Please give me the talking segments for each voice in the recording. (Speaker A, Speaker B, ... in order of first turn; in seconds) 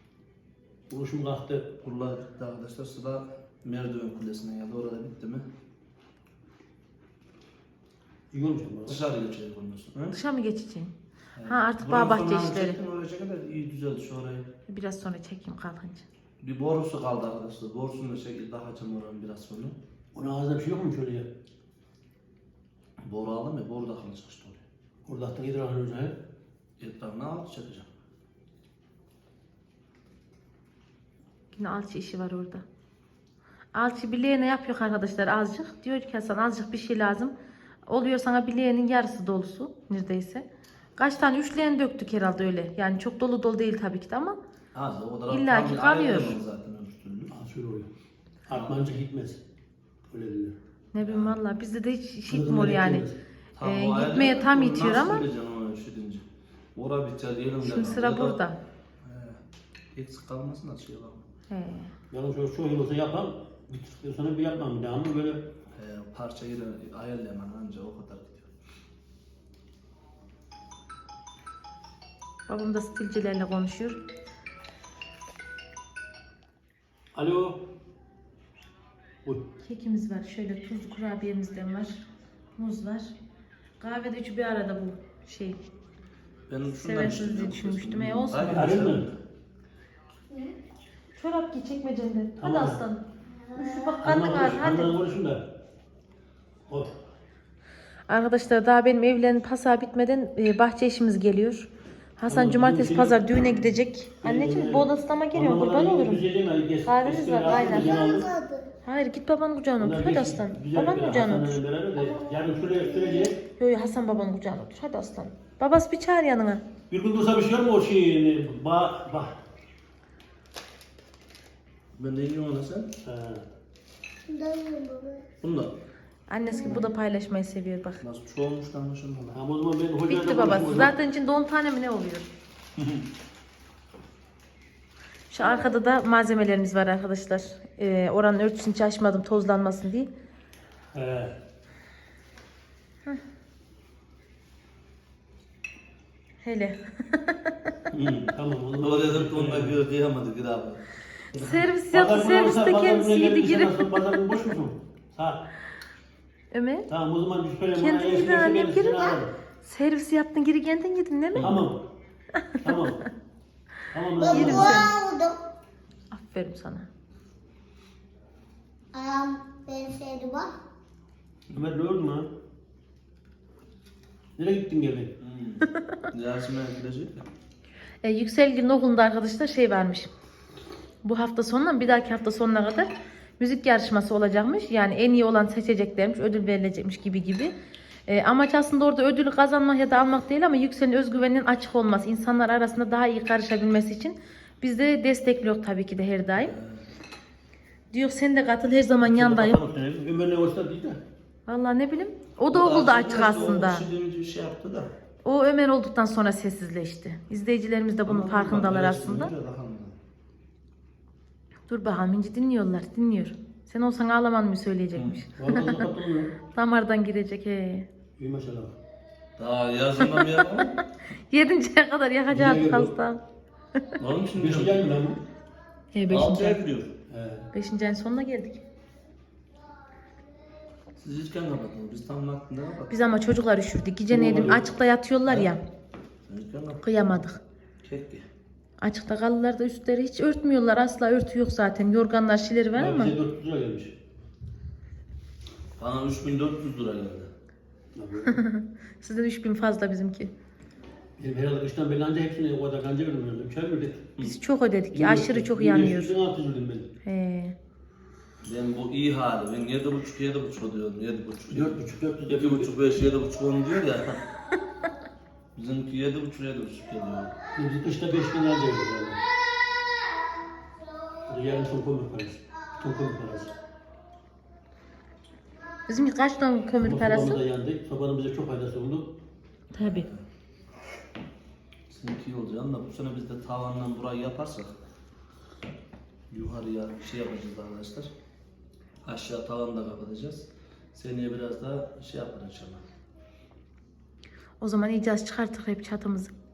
Speaker A: 0.9-1.7, 8.3-9.0, 20.1-21.3, 25.1-26.1, 47.3-47.9, 48.5-49.4, 50.1-50.5, 52.3-53.1, 62.1-65.4, 77.1-77.6, 88.5-89.0, 92.4-92.8, 94.0-95.4, 96.7-97.0, 102.3-108.3, 109.8-113.4, 116.9-119.3, 123.0-123.4, 129.3-130.9, 140.9-141.3, 148.3-149.8, 151.4-155.4, 156.9-159.3, 161.4-161.8, 162.6-163.0, 163.9-164.9, 171.5-172.3, 174.4-175.1, 199.0-201.0, 215.4-216.3, 218.2-218.8, 222.3-222.9, 224.3-225.2, 227.1-227.5, 234.1-234.7, 242.7-243.9, 247.9-248.4, 251.2-254.1, 254.9-256.9, 261.5-262.7, 267.5-269.2, 271.2-273.5, 276.8-279.1
Speaker B: 1.8-5.5, 8.9-10.2, 11.4-14.5, 16.4-19.8, 23.0-24.6, 26.8-27.9, 44.7-47.3, 51.0-51.4, 53.6-58.4, 59.0-59.4, 59.9-61.3, 65.8-68.5, 86.5-89.2, 122.0-122.9, 125.4-125.8, 126.6-126.9, 128.0-129.4, 147.9-150.8, 175.2-177.2, 196.3-196.8, 202.5-204.9, 208.1-210.0, 219.4-220.8, 224.0-224.9, 226.1-226.9, 231.0-232.9, 236.3-236.9, 237.8-238.2, 245.8-247.3, 258.4-264.2, 265.5-267.3, 279.8-280.2, 281.9-284.7, 286.3-288.1, 289.0-292.8
Speaker C: 10.1-10.9, 11.4-12.8, 14.7-16.0, 31.5-32.6, 33.8-37.3, 37.9-40.4, 41.0-44.4, 45.3-46.4, 50.9-53.0, 53.6-55.2, 57.6-58.6, 61.5-61.9, 72.5-74.0, 79.6-82.0, 82.6-83.1, 83.8-85.6, 86.7-88.8, 91.2-93.0, 93.5-94.9, 98.1-106.2, 106.9-108.0, 108.8-111.6, 113.6-116.6, 126.3-128.0, 130.1-132.3, 135.3-140.1, 146.4-147.7, 151.3-154.0, 156.5-156.9, 157.8-161.5, 162.4-162.7, 164.2-164.9, 166.1-166.9, 175.8-176.0, 178.0-180.1, 181.0-187.5, 188.1-196.5, 197.9-199.6, 201.5-203.8, 205.2-209.3, 211.7-215.9, 216.5-217.9, 220.0-223.2, 225.9-226.6, 227.5-228.6, 232.9-235.6, 236.8-237.4, 238.8-243.1, 248.3-250.3, 254.2-256.1, 257.0-257.5, 275.9-277.4, 279.7-280.1, 294.6-296.3
Speaker D: 90.3-90.5, 93.4-94.0, 107.5-108.7, 112.0-113.3, 124.3-125.2, 126.5-126.8, 135.4-135.7, 164.2-165.4, 168.9-170.5